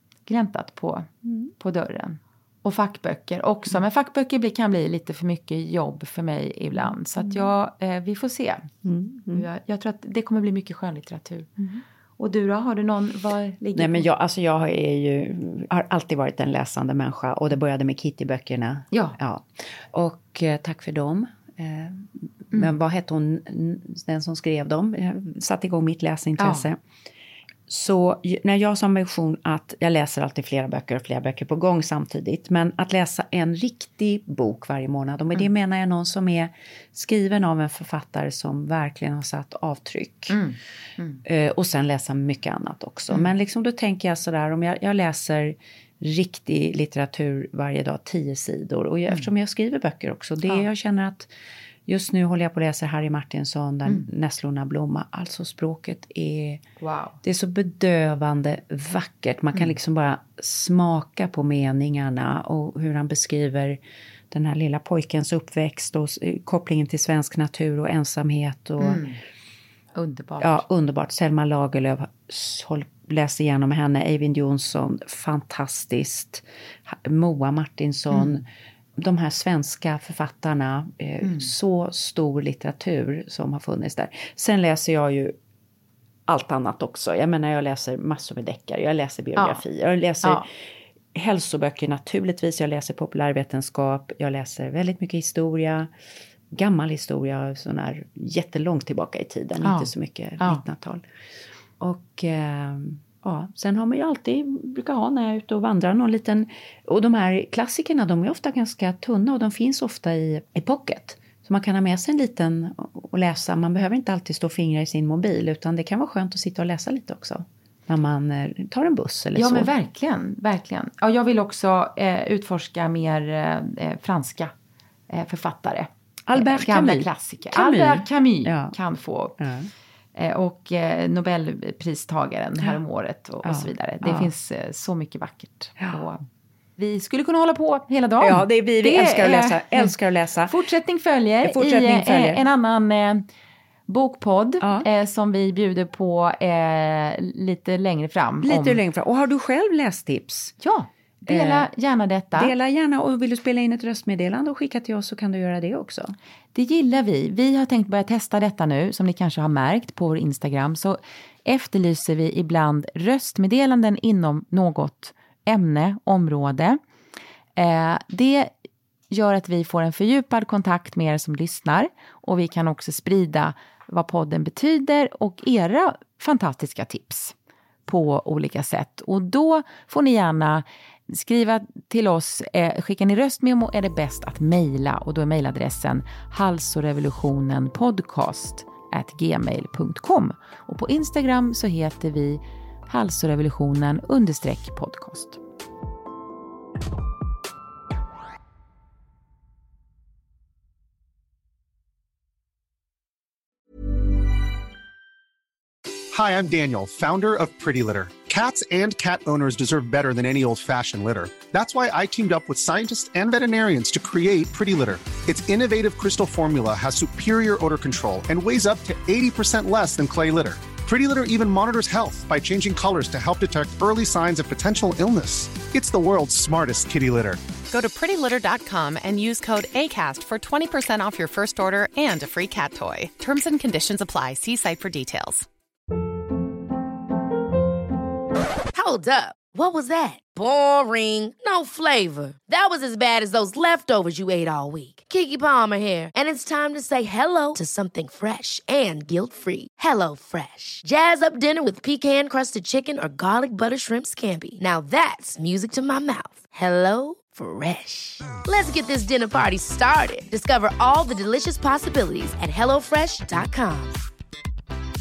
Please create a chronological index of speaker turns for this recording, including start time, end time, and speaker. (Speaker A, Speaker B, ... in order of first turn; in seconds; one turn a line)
Speaker A: 0.3-8.7
Speaker B: 8.8-9.4
Speaker A: 9.3-11.6
Speaker A: 12.2-14.1
Speaker B: 13.8-26.8
Speaker A: 18.9-19.2
Speaker A: 26.4-26.7
Speaker B: 27.7-40.4
Speaker A: 40.3-41.2
Speaker B: 41.2-51.3
Speaker B: 51.9-56.6
Speaker A: 56.8-57.2
Speaker B: 57.2-63.8
Speaker B: 64.3-69.1
Speaker A: 68.8-69.2
Speaker A: 70.0-70.6
Speaker B: 70.4-78.5
Speaker A: 78.1-78.4
Speaker B: 79.0-85.3
Speaker A: 81.2-81.5
Speaker B: 86.3-90.5
Speaker A: 89.4-89.6
Speaker B: 91.1-95.9
Speaker B: 96.5-101.0
Speaker A: 99.6-100.6
Speaker B: 101.8-119.7
Speaker A: 119.4-124.5
Speaker A: 125.1-129.4
Speaker B: 126.3-128.8
Speaker B: 129.4-129.7
Speaker A: 130.2-136.2
Speaker B: 133.4-134.3
Speaker A: 136.8-139.9
Speaker B: 138.2-140.6
Speaker A: 140.5-143.2
Speaker B: 141.4-142.4
Speaker A: 143.9-148.8
Speaker B: 144.6-144.9
Speaker B: 148.4-150.6
Speaker A: 150.6-152.5
Speaker B: 151.3-151.7
Speaker B: 152.3-156.2
Speaker A: 156.6-166.8
Speaker A: 167.6-168.5
Speaker A: 169.1-177.3
Speaker A: 177.9-195.4
Speaker C: 206.1-227.4
Speaker D: 227.7-235.5
Speaker E: 238.7-264.0